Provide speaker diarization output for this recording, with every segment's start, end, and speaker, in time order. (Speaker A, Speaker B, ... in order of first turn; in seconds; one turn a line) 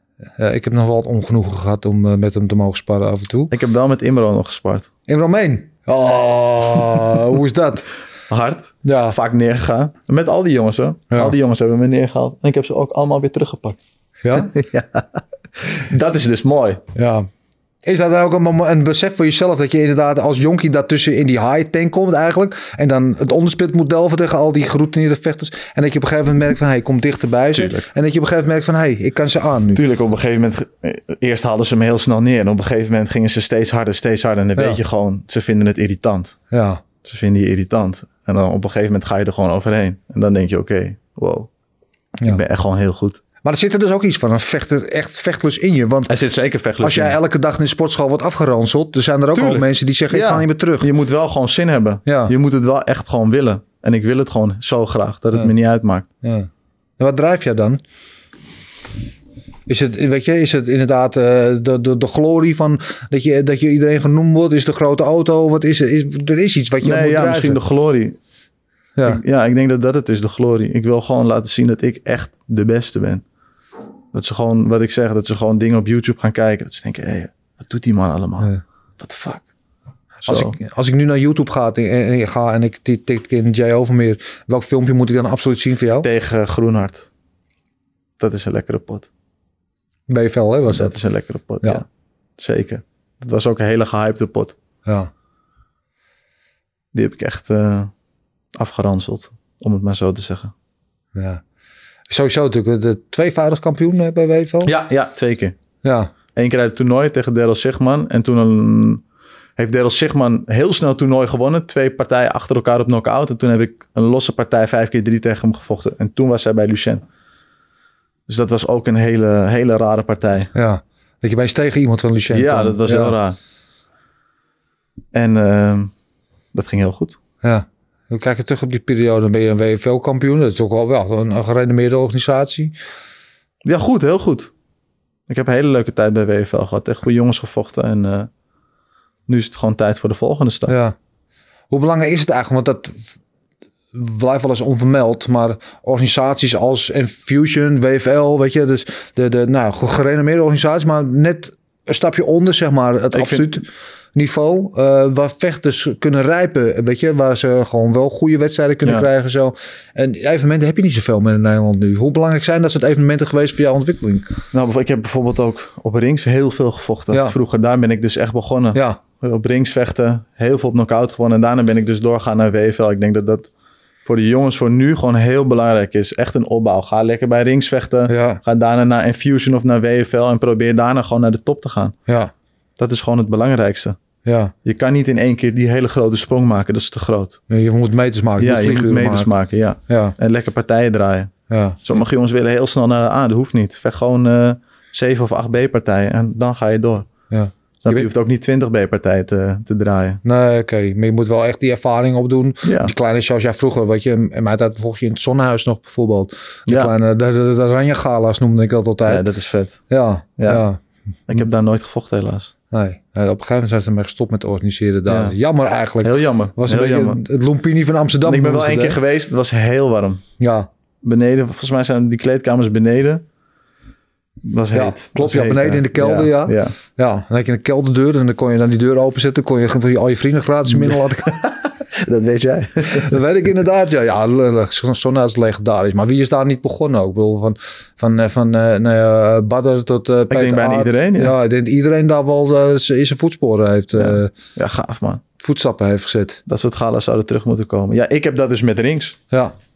Speaker A: 0.3-3.5
Speaker B: 3.5-4.9
Speaker A: 5.1-7.9
Speaker B: 8.3-13.8
Speaker A: 8.8-9.2
Speaker A: 11.1-11.3
Speaker A: 14.2-14.5
Speaker B: 14.3-16.8
Speaker A: 16.9-17.3
Speaker A: 17.8-29.8
Speaker B: 27.5-27.9
Speaker B: 29.7-36.4
Speaker A: 36.5-36.8
Speaker B: 37.0-41.5
Speaker B: 42.2-43.2
Speaker A: 43.4-46.1
Speaker B: 46.1-47.2
Speaker A: 46.8-50.9
Speaker B: 49.3-56.1
Speaker A: 52.0-52.3
Speaker A: 56.2-57.8
Speaker A: 59.7-67.6
Speaker B: 66.8-68.2
Speaker B: 69.0-73.2
Speaker B: 74.1-79.5
Speaker A: 80.2-86.1
Speaker B: 80.3-80.5
Speaker B: 86.0-87.1
Speaker B: 88.2-89.1
Speaker A: 90.1-91.0
Speaker B: 90.7-91.8
Speaker B: 92.4-94.5
Speaker B: 96.9-97.9
Speaker B: 98.5-100.5
Speaker A: 101.1-101.4
Speaker A: 102.1-104.8
Speaker B: 104.6-105.5
Speaker A: 105.8-106.1
Speaker B: 106.3-109.0
Speaker B: 109.6-117.0
Speaker B: 118.3-120.5
Speaker A: 120.5-123.2
Speaker B: 122.3-123.4
Speaker B: 125.1-125.9
Speaker B: 126.5-127.2
Speaker A: 127.4-132.7
Speaker B: 133.6-134.5
Speaker B: 135.3-138.3
Speaker B: 139.3-140.7
Speaker A: 140.7-140.9
Speaker A: 141.7-143.0
Speaker A: 143.9-164.3
Speaker B: 153.1-153.6
Speaker B: 164.5-173.5
Speaker A: 168.7-169.0
Speaker B: 174.0-181.9
Speaker A: 178.1-178.4
Speaker B: 182.8-184.0
Speaker A: 184.2-184.5
Speaker B: 184.6-187.4
Speaker A: 187.5-189.3
Speaker B: 188.4-197.1
Speaker A: 189.9-190.1
Speaker A: 191.5-191.8
Speaker A: 197.3-198.1
Speaker B: 197.8-200.2
Speaker A: 200.2-209.3
Speaker B: 202.6-202.9
Speaker B: 206.7-206.9
Speaker B: 209.1-209.8
Speaker A: 209.9-210.8
Speaker B: 210.4-210.6
Speaker B: 211.3-212.5
Speaker A: 212.7-219.0
Speaker B: 215.1-215.4
Speaker B: 216.0-217.2
Speaker B: 218.2-220.2
Speaker A: 220.4-220.7
Speaker B: 221.0-223.2
Speaker B: 224.4-226.7
Speaker A: 224.7-231.4
Speaker B: 230.7-233.2
Speaker A: 232.8-244.3
Speaker B: 240.3-241.3
Speaker B: 243.9-245.2
Speaker A: 245.4-246.4
Speaker B: 246.5-249.2